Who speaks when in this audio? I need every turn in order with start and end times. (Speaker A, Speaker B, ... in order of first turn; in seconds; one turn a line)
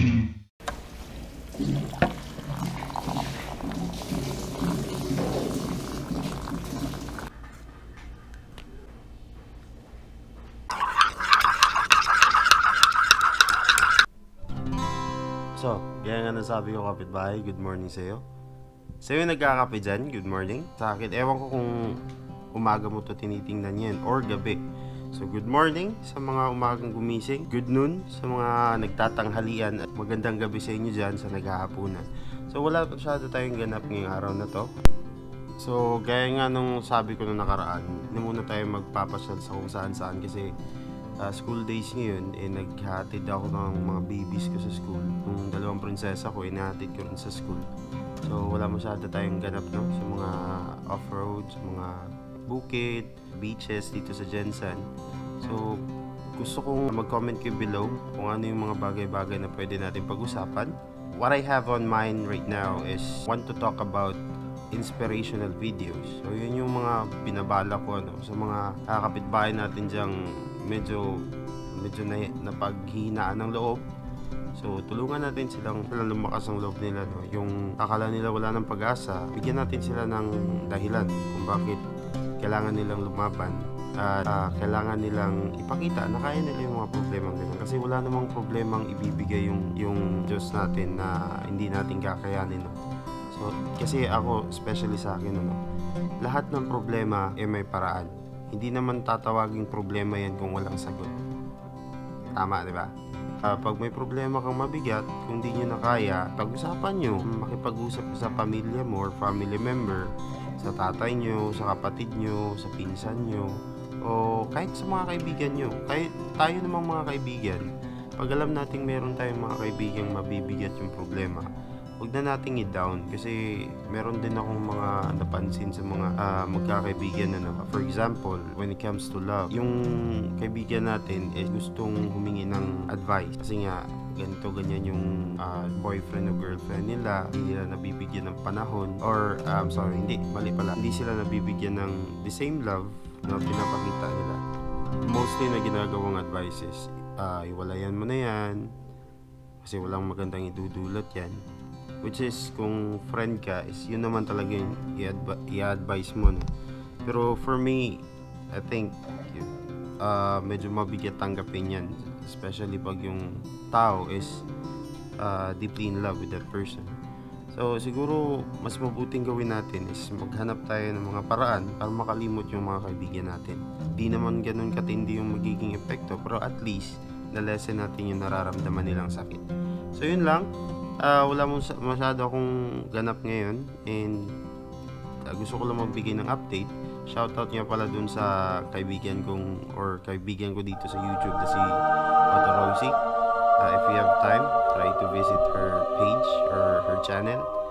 Speaker A: 15.6-18.2
Speaker A: 19.0-22.0
Speaker A: 22.5-34.7
Speaker A: 35.6-40.5
Speaker A: 41.2-47.6
Speaker A: 48.2-54.9
Speaker A: 55.4-55.8
Speaker A: 56.3-64.2
Speaker A: 64.7-71.2
Speaker A: 71.8-73.8
Speaker A: 74.5-81.8
Speaker A: 82.4-92.8
Speaker A: 93.3-95.6
Speaker A: 96.2-101.2
Speaker A: 102.3-102.9
Speaker A: 103.4-121.5
Speaker A: 122.0-144.4
Speaker A: 145.0-148.7
Speaker A: 149.6-151.4
Speaker A: 152.0-156.5
Speaker A: 157.1-164.4
Speaker A: 165.2-166.9
Speaker A: 167.5-180.4
Speaker A: 181.0-184.2
Speaker A: 185.3-191.8
Speaker A: 192.3-193.0
Speaker A: 193.6-197.5